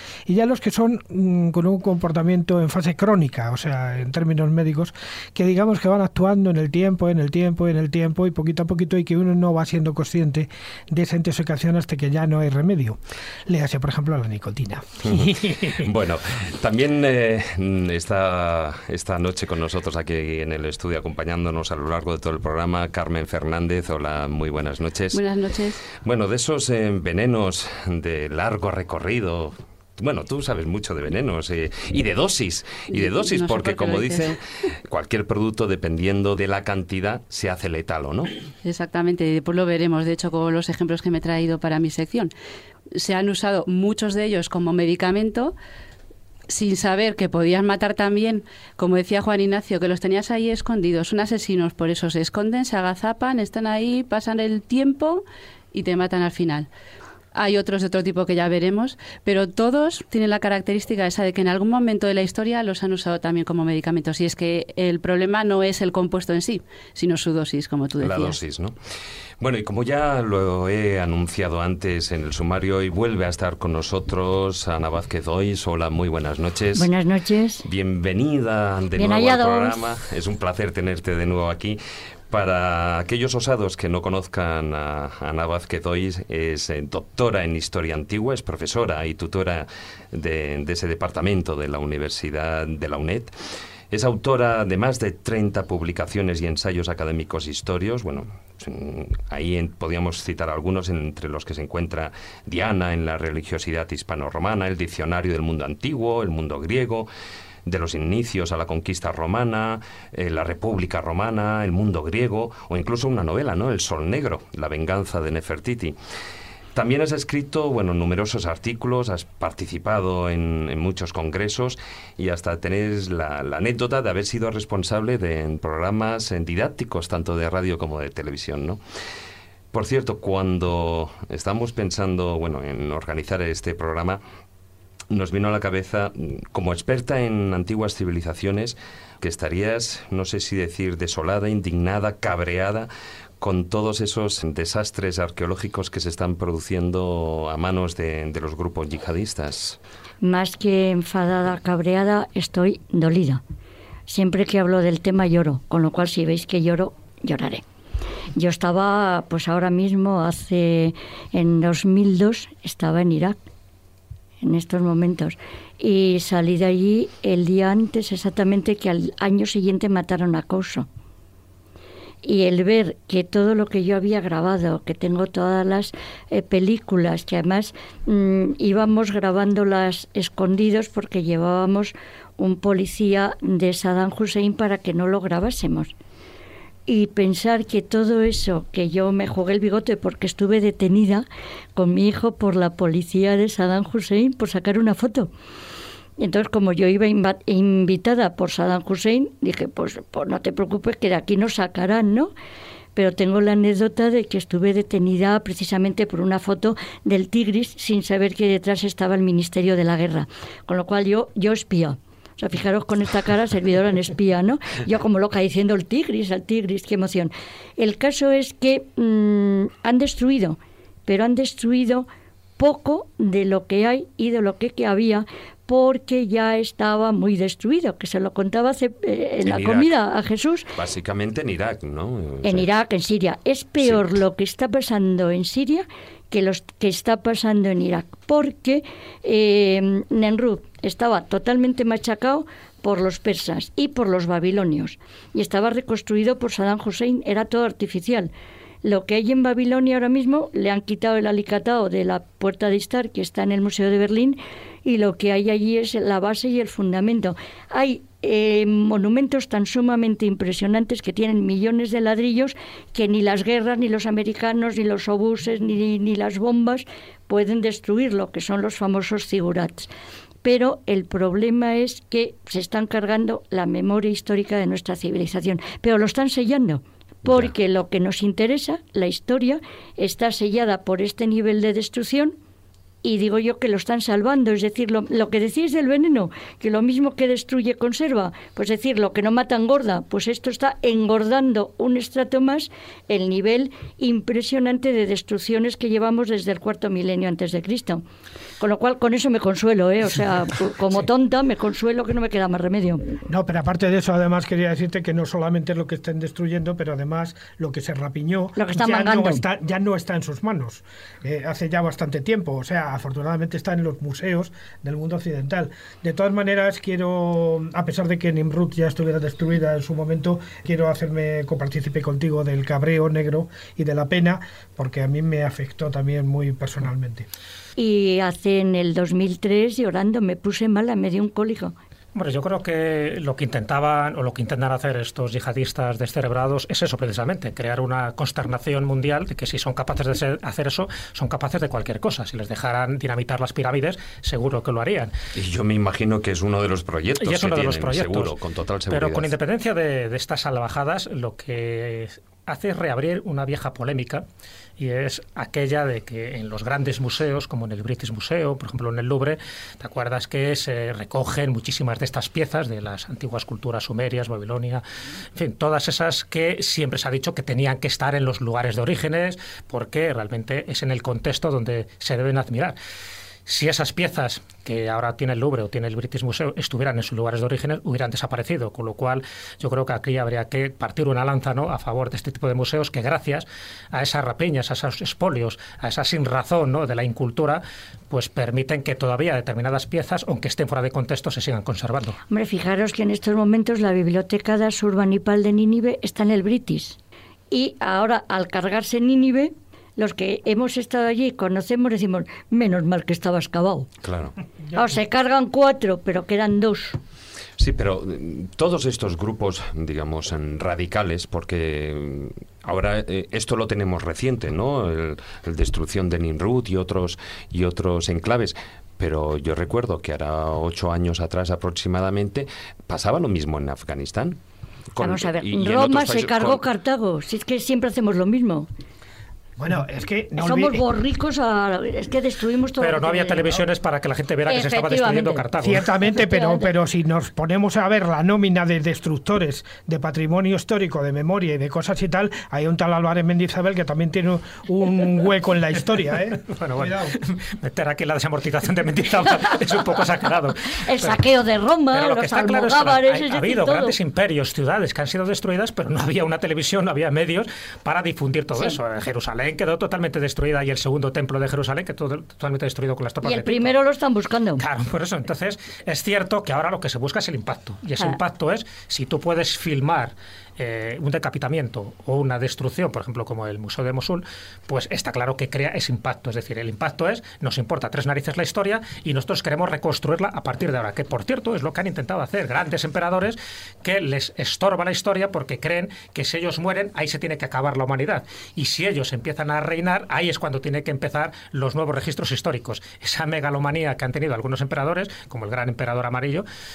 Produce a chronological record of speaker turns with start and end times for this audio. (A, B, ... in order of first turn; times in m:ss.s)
0:00.3-0:15.6 A
0:15.1-0:25.2 B
0:25.1-0:25.8 C
0:25.9-0:38.3 B
0:32.9-0:34.4 C
0:38.6-0:42.3 C
0:43.0-0:45.6 C
0:46.5-0:56.7 C
0:57.3-1:08.4 C
1:08.0-1:08.8 B
1:09.4-1:16.9 B
1:16.8-1:17.6 D
1:17.6-1:21.8 B
1:19.0-1:19.8 D
1:22.3-1:33.3 B
1:33.9-1:47.1 B
1:47.7-1:56.0 B
1:56.8-2:08.8 B
2:09.7-2:14.2 B
2:15.1-2:22.9 B
2:23.4-2:29.8 B
2:30.2-2:33.4 D
2:34.1-2:37.6 D
2:38.4-2:43.4 D
2:44.4-2:50.9 D
2:52.2-3:05.9 D
3:06.9-3:15.3 D
3:16.2-3:22.3 D
3:23.0-3:50.7 D
3:49.4-3:50.0 B
3:50.8-3:52.7 B
3:52.4-4:08.3 D
3:53.8-3:54.1 B
4:08.8-4:29.9 D
4:30.4-4:42.4 D
4:37.3-4:37.5 B
4:43.0-4:58.0 D
4:58.6-5:03.2 D
5:03.3-5:27.3 A
5:08.6-5:09.4 D
5:27.8-5:31.8 D
5:32.2-5:45.1 E
5:45.4-5:49.3 B
5:47.2-5:48.3 E
5:48.9-5:54.2 E
5:54.8-6:04.8 E
6:05.4-6:12.8 E
6:13.5-6:32.2 E
6:32.3-6:37.0 D
6:37.5-6:43.9 D
6:44.0-6:44.3 B
6:44.7-6:47.0 D
6:47.6-7:04.4 B
7:05.0-7:06.6 B
7:05.0-7:08.7 D
7:09.6-7:10.9 A
7:10.4-7:13.6 D
7:12.8-7:15.9 E
7:14.5-7:15.5 D
7:15.6-7:27.2 A
7:16.2-7:16.7 D
7:26.4-7:31.2 E
7:30.8-7:34.0 D
7:31.9-7:43.7 E
7:43.2-7:44.6 D
7:44.6-8:16.5 E